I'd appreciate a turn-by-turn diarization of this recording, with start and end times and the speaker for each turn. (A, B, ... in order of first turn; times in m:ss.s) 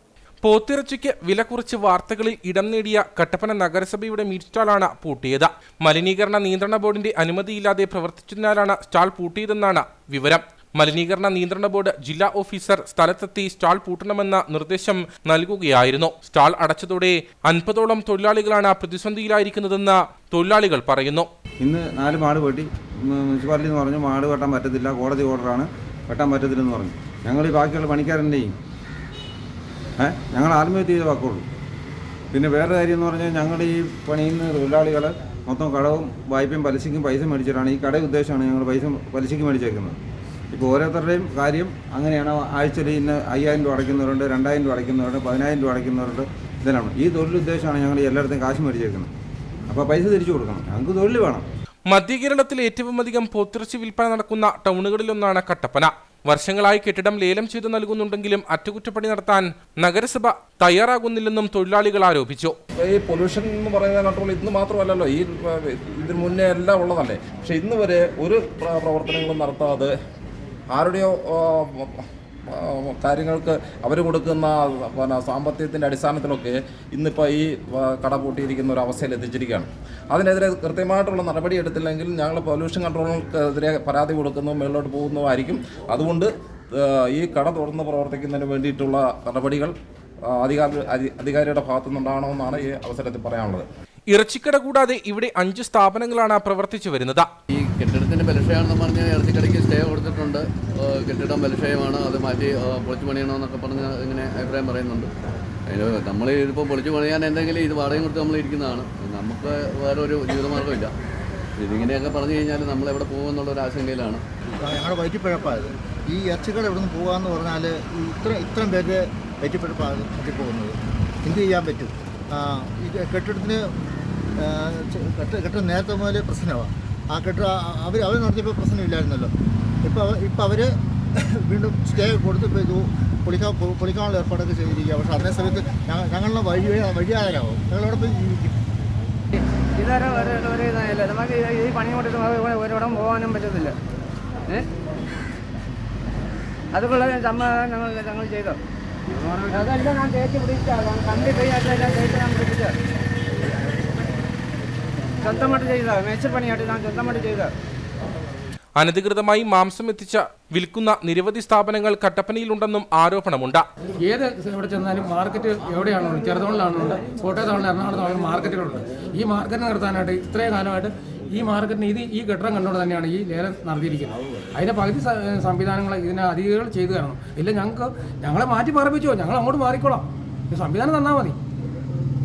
0:00.4-0:21.3 A
0:21.6-0:28.5 B
0:30.0-0:31.4 B
0:32.3-0:40.0 B
0:40.5-0:49.1 B
0:49.7-0:51.4 B
0:51.9-1:02.5 A
1:02.8-1:09.9 C
1:10.7-1:33.6 C
1:34.1-1:37.3 A
1:37.5-1:45.1 D
1:45.7-1:50.9 D
1:51.6-1:54.2 D
1:54.6-2:03.7 E
2:04.4-2:09.3 E
2:09.8-2:18.6 E
2:19.3-2:23.8 F
2:26.7-2:28.6 F
2:29.1-2:32.8 F
2:35.2-2:37.5 F
2:38.8-2:43.6 A
2:44.0-3:01.4 G